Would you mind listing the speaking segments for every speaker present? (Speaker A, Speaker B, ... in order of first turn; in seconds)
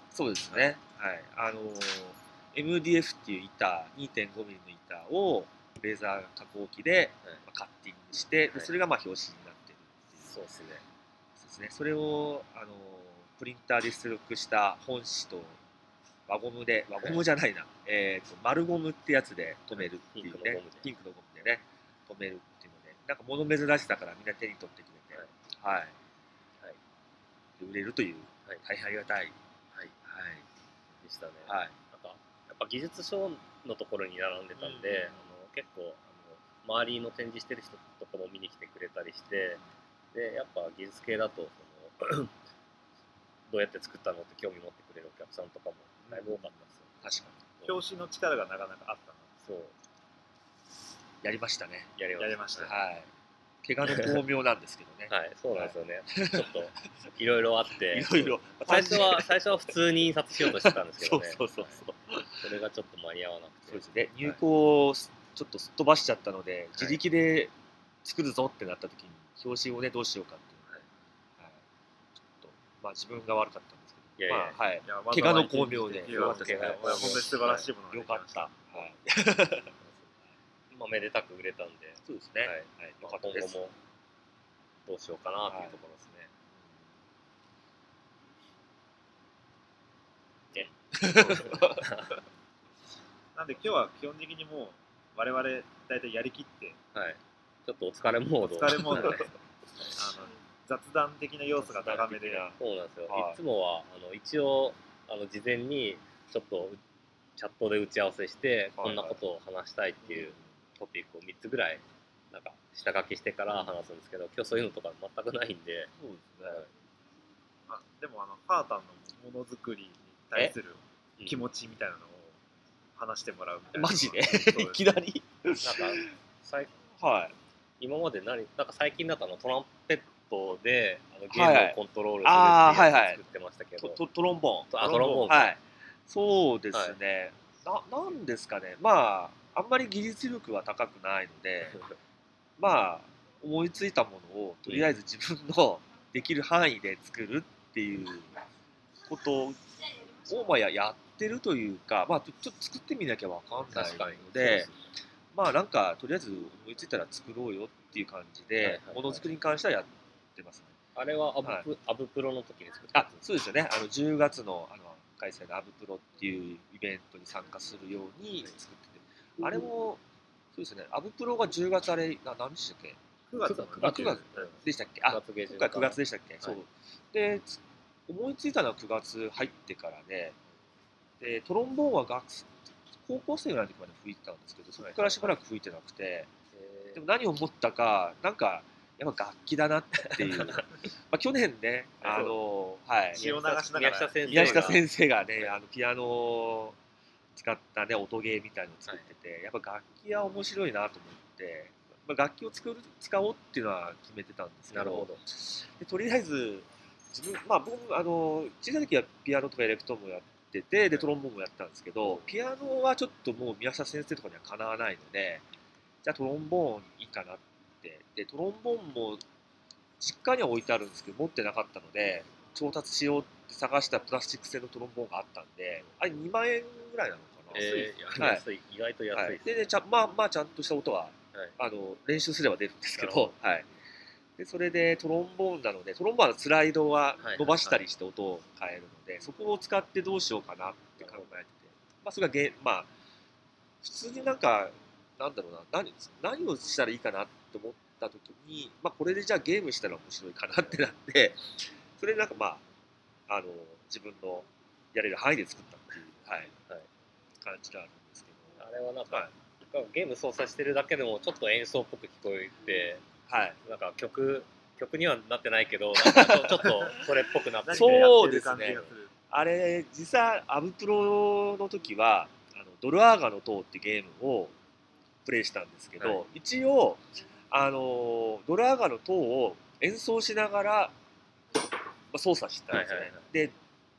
Speaker A: 0.1-10.4, 11.4-15.6, 16.3-26.0, 27.6-29.4, 30.0-30.5, 31.5-31.8, 34.6-35.2, 46.1-47.4, 51.2-51.9, 52.6-53.1, 53.6-56.6, 57.8-59.7, 60.4-62.5, 63.7-67.5, 68.0-70.7, 72.3-79.7, 82.1-83.6, 85.5-85.8, 90.9-91.9, 99.0-99.2, 101.6-102.5, 103.1-103.4, 108.8-109.2, 110.1-110.5, 116.0-116.7, 123.7-126.1, 126.9-127.4, 131.3-133.2, 133.8-141.8, 142.6-148.4, 149.1-154.7, 155.3-160.8, 162.9-170.0, 170.5-173.0, 173.8-180.4, 181.2-186.3, 186.9-193.2, 194.3-196.8, 197.4-215.4, 216.0-219.2, 220.0-228.4, 229.1-233.7, 234.4-242.9, 243.8-252.6, 253.3-256.5, 257.4-259.3, 263.3-263.6, 266.0-267.1, 267.7-274.6, 275.2-280.9, 282.1-283.6
Speaker B: 10.2-10.8, 16.9-17.2, 19.7-20.9, 31.0-39.6, 40.1-42.3, 43.5-47.0, 49.4-49.8, 52.0-52.7, 53.9-54.2, 55.1-61.9, 62.4-64.4, 74.2-74.6, 76.1-77.7, 79.7-80.2, 80.7-83.8, 84.9-86.3, 90.5-92.2, 96.9-99.9, 102.5-106.8, 107.4-115.9, 125.6-126.7, 127.8-134.0, 134.7-135.5, 136.7-137.0, 153.7-154.8, 158.6-159.3, 161.0-163.2, 173.4-176.6, 184.8-185.4, 186.5-187.0, 190.0-190.7, 192.0-192.4, 193.1-194.8, 204.7-205.2, 212.0-212.3, 227.5-229.8, 233.0-233.4, 237.2-237.8, 241.0-241.4, 258.6-263.1, 263.6-268.2, 276.0-276.2, 282.7-283.3
Speaker C: 47.6-49.3, 52.2-52.8, 74.8-78.6, 93.3-96.8, 98.5-99.3, 99.9-102.5, 117.7-122.4, 123.0-124.8, 134.8-135.4, 173.3-174.5, 193.1-194.8, 267.6-269.1